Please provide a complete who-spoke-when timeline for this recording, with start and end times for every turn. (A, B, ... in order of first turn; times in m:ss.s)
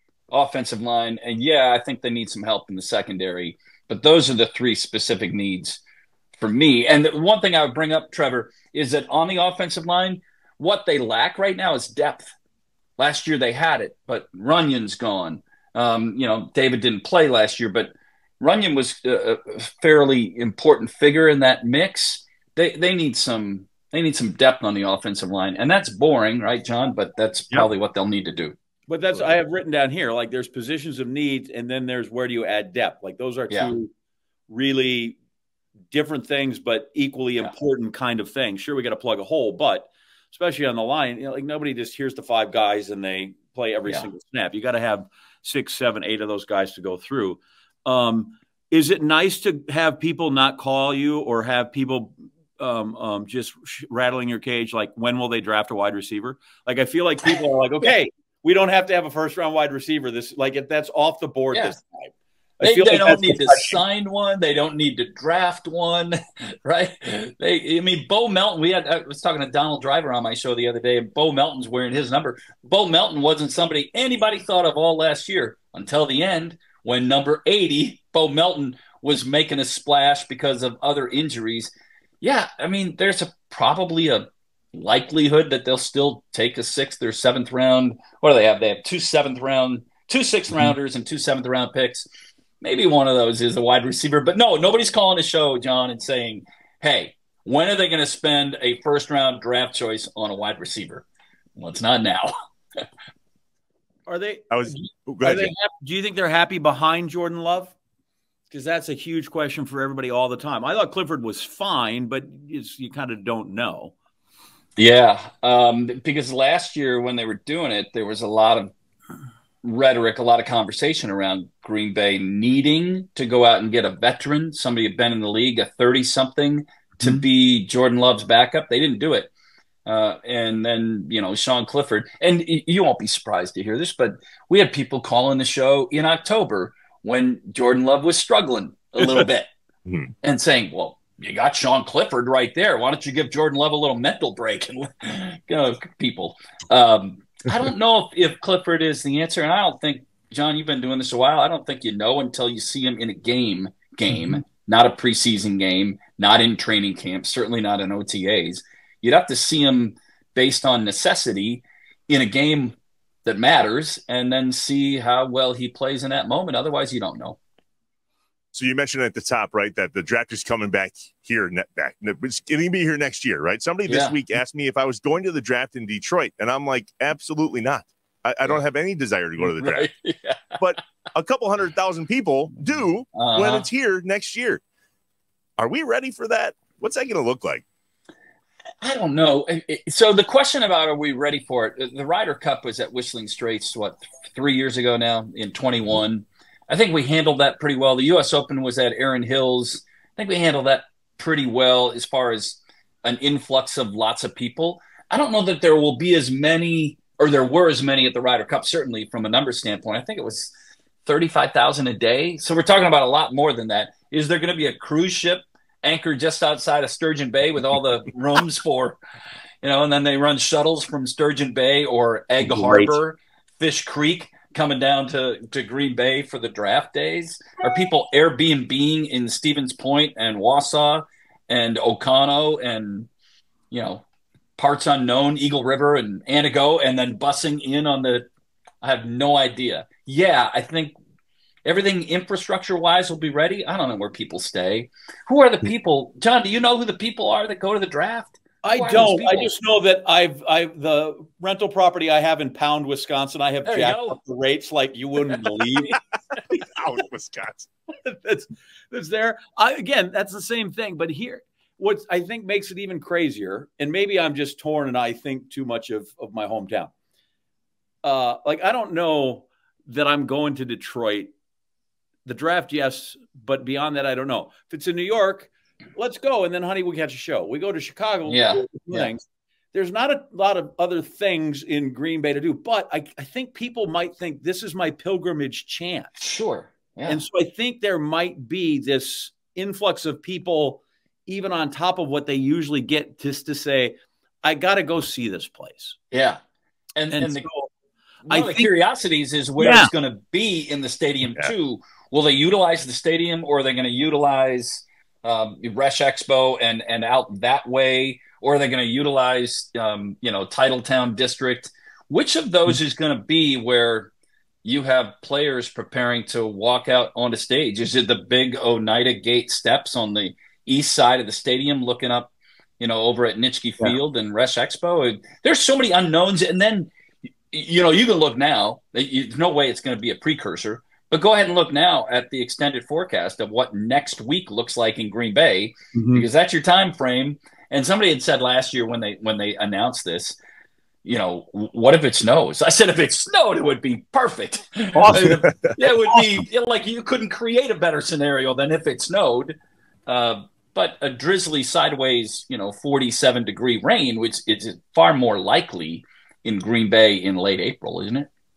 0:00.3-0:05.8 A
0:06.4-0:12.3 A
0:13.0-0:28.6 A
0:28.9-0:33.9 B
0:34.5-0:35.2 B
0:35.9-1:03.8 B
1:02.6-1:32.1 A
1:32.6-1:41.0 A
1:41.6-1:42.3 A
1:44.1-1:47.7 B
1:44.5-1:45.5 C
1:48.5-1:53.9 B
1:54.8-1:58.7 A
1:59.6-2:09.3 A
2:07.0-2:07.2 B
2:09.9-2:19.5 A
2:19.9-2:20.1 C
2:20.2-2:47.4 A
2:48.5-2:59.9 C
2:53.9-2:54.2 A
2:59.4-3:00.6 A
3:00.6-3:04.6 C
3:03.2-3:03.7 A
3:05.6-3:07.6 C
3:08.8-3:30.5 A
3:31.0-3:39.0 A
3:39.6-3:53.1 A
3:53.7-3:54.0 A
3:54.6-3:58.3 A
3:58.8-4:01.0 A
4:01.6-4:09.5 A
4:08.6-4:16.0 B
4:13.6-4:14.2 A
4:15.3-4:15.9 A
4:16.6-4:17.7 C
4:18.0-4:26.9 B
4:28.0-4:31.3 B
4:32.2-4:39.2 B
4:38.3-4:39.1 A
4:39.7-4:46.2 B
4:46.2-4:47.2 A
4:47.1-4:56.0 B
4:56.1-4:56.4 A
4:57.0-4:57.5 A
4:57.1-4:57.7 B
4:58.3-5:14.1 A
4:58.3-4:58.7 B
4:59.6-4:59.9 B
5:14.6-5:26.9 A
5:27.5-5:40.4 A
5:36.0-5:36.3 B
5:41.0-5:49.6 A
5:45.0-5:45.8 C
5:50.1-5:58.3 A